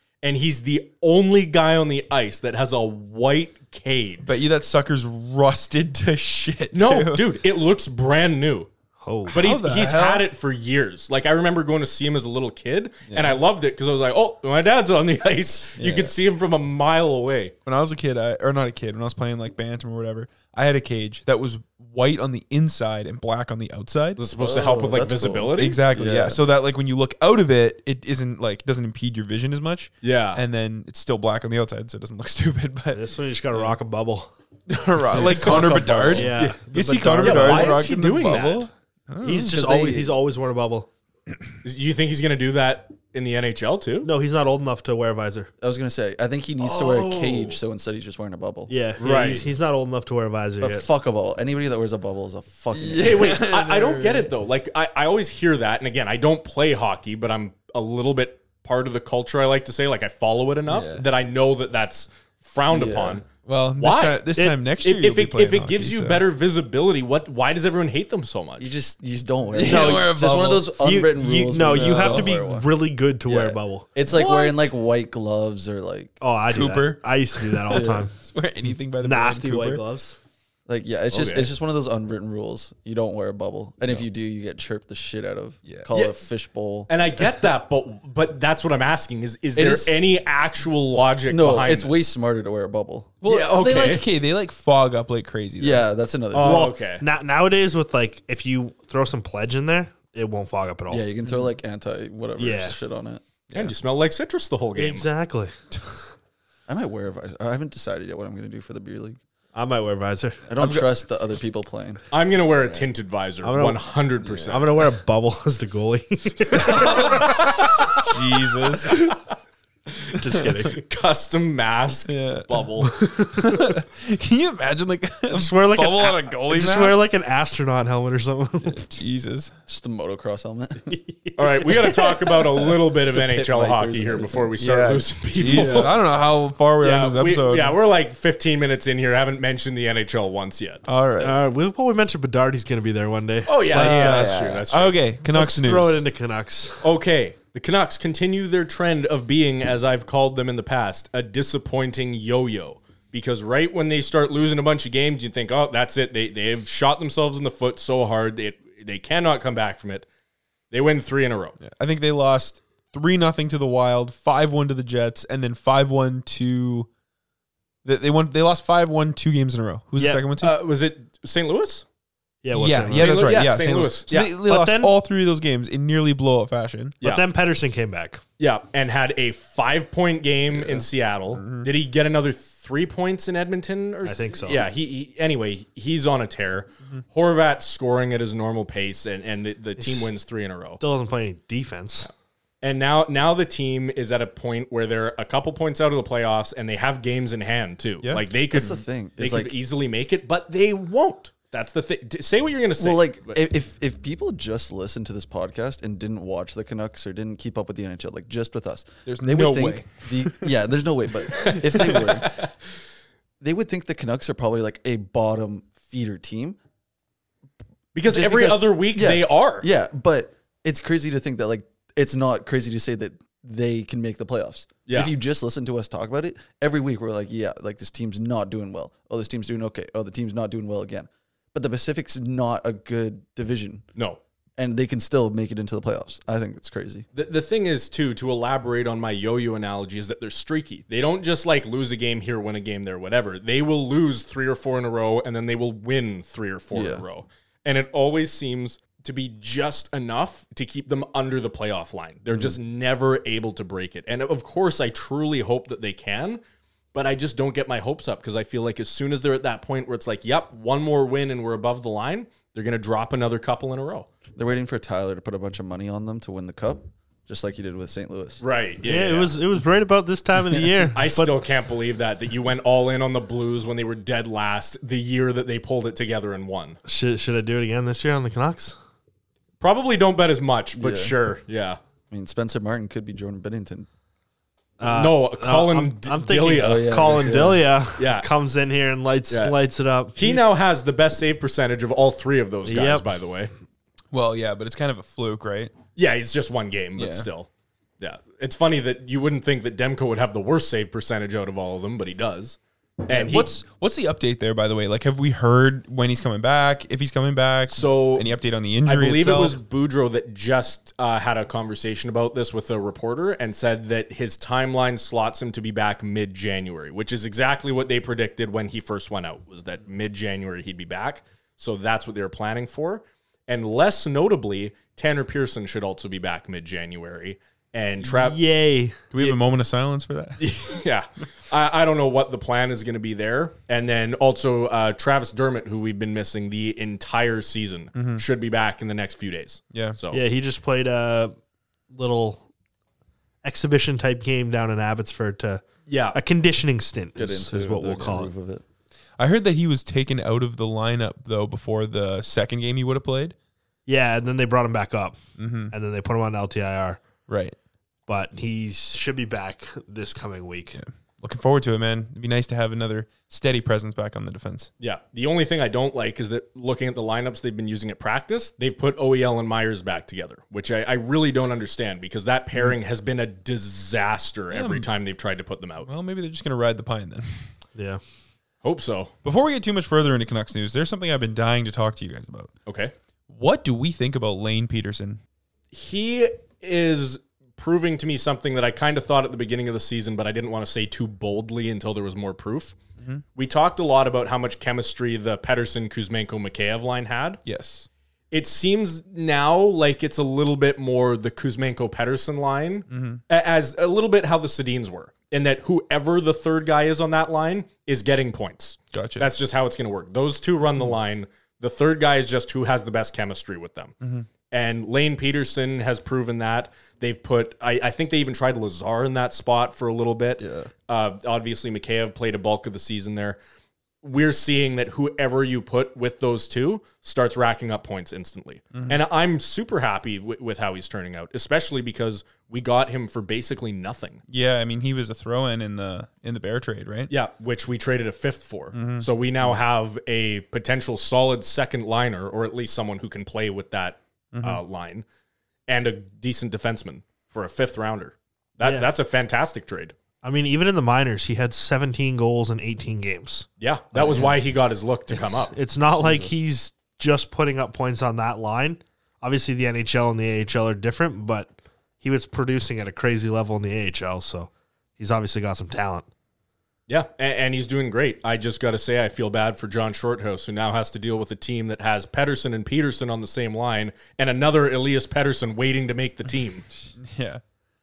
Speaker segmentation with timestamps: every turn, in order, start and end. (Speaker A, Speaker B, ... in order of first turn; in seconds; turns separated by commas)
Speaker A: 0.2-4.3, Speaker B: 4.2-7.2, Speaker A: 6.7-8.7, Speaker C: 9.0-9.3, Speaker B: 9.3-10.2, Speaker A: 9.3-17.5, Speaker B: 13.1-13.4, Speaker B: 15.8-16.1, Speaker B: 17.6-24.2, Speaker A: 24.2-25.9, Speaker D: 24.4-26.4, Speaker B: 25.6-33.7, Speaker A: 30.0-30.4, Speaker C: 32.9-34.3, Speaker B: 34.7-39.6, Speaker D: 35.1-36.4, Speaker C: 36.1-37.9, Speaker A: 37.2-38.7, Speaker C: 39.2-40.9, Speaker D: 39.5-40.1, Speaker A: 41.6-44.1, Speaker C: 44.0-45.5, Speaker D: 45.6-48.7, Speaker A: 46.6-47.6, Speaker C: 48.7-50.9, Speaker A: 49.0-49.4, Speaker D: 50.6-53.4, Speaker B: 52.7-54.3, Speaker A: 53.0-68.7, Speaker B: 60.7-61.0, Speaker D: 62.7-63.2, Speaker B: 63.5-66.2, Speaker D: 68.6-72.7, Speaker B: 69.5-70.7, Speaker C: 69.7-70.1, Speaker C: 70.7-73.9, Speaker B: 71.7-72.3, Speaker D: 73.2-76.2, Speaker C: 76.2-78.1, Speaker B: 76.5-77.6, Speaker D: 77.7-78.1, Speaker B: 78.1-79.8, Speaker C: 79.0-80.2, Speaker D: 80.7-86.9, Speaker A: 81.1-81.5, Speaker A: 85.9-86.2, Speaker A: 86.9-92.1, Speaker D: 89.6-89.9, Speaker D: 91.3-93.2, Speaker B: 93.2-95.8, Speaker A: 93.2-94.0, Speaker D: 95.6-96.7, Speaker A: 96.3-97.0, Speaker C: 96.3-101.0, Speaker D: 100.9-103.2, Speaker C: 102.4-102.8, Speaker A: 103.5-105.1, Speaker C: 104.8-105.5, Speaker D: 106.7-109.2, Speaker C: 109.5-110.4, Speaker D: 110.5-112.0, Speaker B: 110.6-110.8, Speaker A: 112.1-114.8, Speaker C: 113.4-113.9, Speaker B: 114.2-114.5, Speaker C: 114.4-117.2, Speaker B: 116.7-117.5, Speaker B: 118.0-118.9, Speaker C: 120.2-120.8, Speaker A: 120.8-123.0, Speaker B: 122.1-122.6, Speaker C: 122.9-123.6, Speaker B: 123.4-127.0, Speaker C: 125.3-128.8, Speaker B: 128.7-129.5, Speaker D: 129.7-130.9, Speaker C: 130.9-131.7, Speaker A: 131.4-136.0, Speaker D: 133.2-134.6, Speaker B: 134.6-137.8, Speaker A: 136.8-140.8, Speaker B: 140.8-141.4, Speaker C: 141.2-144.4, Speaker A: 143.4-145.0, Speaker B: 143.7-146.1, Speaker C: 145.2-146.8, Speaker A: 146.8-160.1, Speaker A: 160.7-161.6, Speaker B: 161.6-166.9, Speaker B: 167.8-170.5, Speaker C: 170.0-170.2, Speaker A: 170.4-171.8, Speaker C: 172.4-173.4, Speaker B: 172.5-177.0, Speaker A: 172.9-174.2, Speaker C: 174.1-174.9, Speaker C: 177.0-178.2, Speaker A: 178.4-190.8, Speaker D: 180.5-180.8, Speaker B: 181.4-181.7, Speaker C: 184.0-184.7, Speaker C: 189.8-190.1, Speaker C: 190.8-192.1, Speaker A: 192.6-203.4, Speaker D: 198.5-199.5, Speaker D: 202.8-212.4, Speaker B: 209.1-210.5, Speaker B: 211.4-212.0, Speaker D: 213.4-216.6, Speaker A: 217.9-219.7, Speaker D: 218.1-233.8, Speaker A: 224.9-225.1, Speaker D: 234.6-237.1, Speaker A: 237.1-256.4, Speaker D: 246.7-247.0, Speaker D: 252.3-252.6, Speaker A: 256.9-264.1, Speaker D: 264.4-268.4, Speaker A: 268.4-269.3, Speaker C: 268.8-271.4, Speaker A: 270.9-276.8, Speaker C: 276.9-278.8, Speaker A: 279.6-281.8, Speaker D: 280.7-281.1, Speaker D: 282.1-283.9, Speaker C: 284.8-290.4, Speaker A: 284.8-288.3, Speaker D: 286.6-287.7, Speaker A: 289.3-289.6, Speaker A: 290.1-293.5, Speaker C: 292.6-293.1, Speaker B: 294.1-295.7, Speaker A: 295.9-297.5, Speaker B: 297.0-297.3, Speaker A: 298.0-303.5, Speaker B: 303.1-309.6, Speaker A: 307.7-328.4, Speaker C: 328.0-329.0, Speaker B: 329.1-330.4, Speaker A: 330.4-340.2, Speaker B: 337.9-338.2, Speaker C: 340.1-341.3, Speaker C: 341.9-342.4, Speaker C: 343.4-348.3, Speaker A: 345.9-346.2, Speaker D: 347.2-348.6, Speaker B: 349.2-353.3, Speaker C: 353.9-357.0, Speaker B: 355.4-355.7, Speaker B: 357.3-357.6, Speaker C: 358.1-360.8, Speaker B: 360.7-364.7, Speaker A: 364.8-375.9, Speaker B: 374.5-374.9, Speaker B: 375.8-377.5, Speaker C: 377.7-378.0, Speaker A: 378.6-379.1, Speaker B: 379.2-382.5, Speaker A: 382.7-382.9, Speaker B: 383.3-385.2, Speaker A: 385.7-392.8, Speaker A: 393.4-397.4, Speaker B: 397.4-397.9, Speaker A: 398.3-413.9, Speaker B: 402.9-403.2, Speaker B: 408.9-409.3, Speaker B: 414.0-414.3, Speaker A: 414.5-423.4, Speaker D: 420.4-420.7, Speaker A: 424.0-434.2, Speaker B: 428.7-429.0, Speaker B: 434.3-437.1, Speaker A: 437.1-445.0, Speaker B: 438.7-439.1, Speaker B: 444.3-444.6, Speaker A: 445.7-450.0, Speaker C: 448.6-448.9, Speaker C: 450.2-454.3, Speaker A: 453.6-455.5, Speaker C: 455.2-466.1, Speaker D: 455.9-456.4, Speaker A: 466.9-476.6, Speaker B: 477.0-477.4